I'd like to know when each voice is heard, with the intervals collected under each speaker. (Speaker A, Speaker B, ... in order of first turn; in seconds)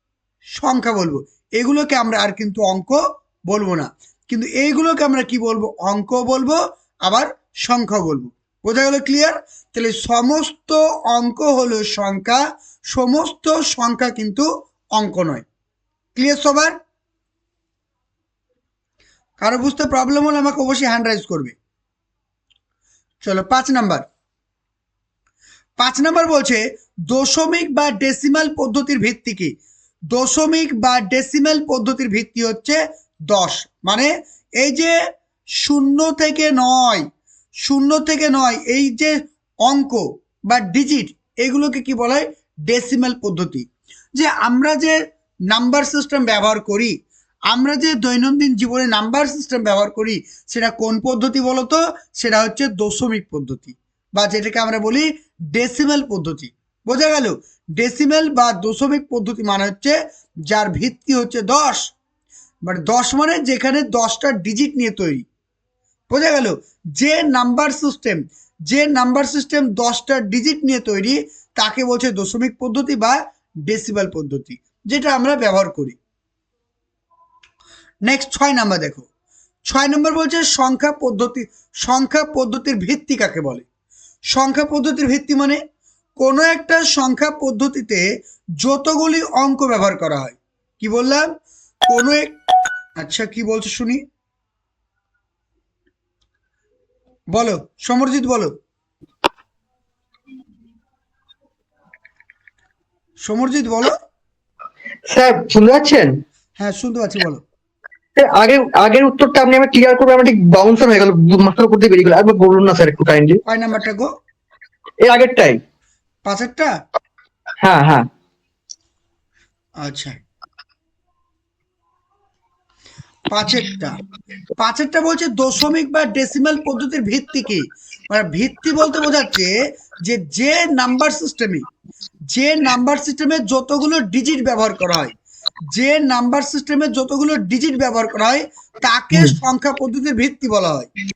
Speaker A: 0.5-12.4, 12.9-15.4, 16.1-16.7, 19.4-21.6, 23.2-24.0, 25.8-29.5, 30.1-35.0, 35.6-37.1, 37.6-45.0, 45.5-47.0, 47.5-60.0, 60.5-61.9, 62.6-65.2, 66.1-76.0, 78.0-79.1, 79.7-83.6, 84.3-85.6, 86.2-88.0, 88.6-91.3, 91.8-92.4, 93.0-94.0, 97.3-98.5, 103.2-103.9, 106.6-107.4, 113.5-114.1, 116.2-116.7, 119.8-120.2, 123.3-124.0, 124.6-131.7, 132.3-135.1, 135.7-140.9
Speaker B: 105.1-106.1, 108.2-113.4, 115.0-115.6, 117.6-118.1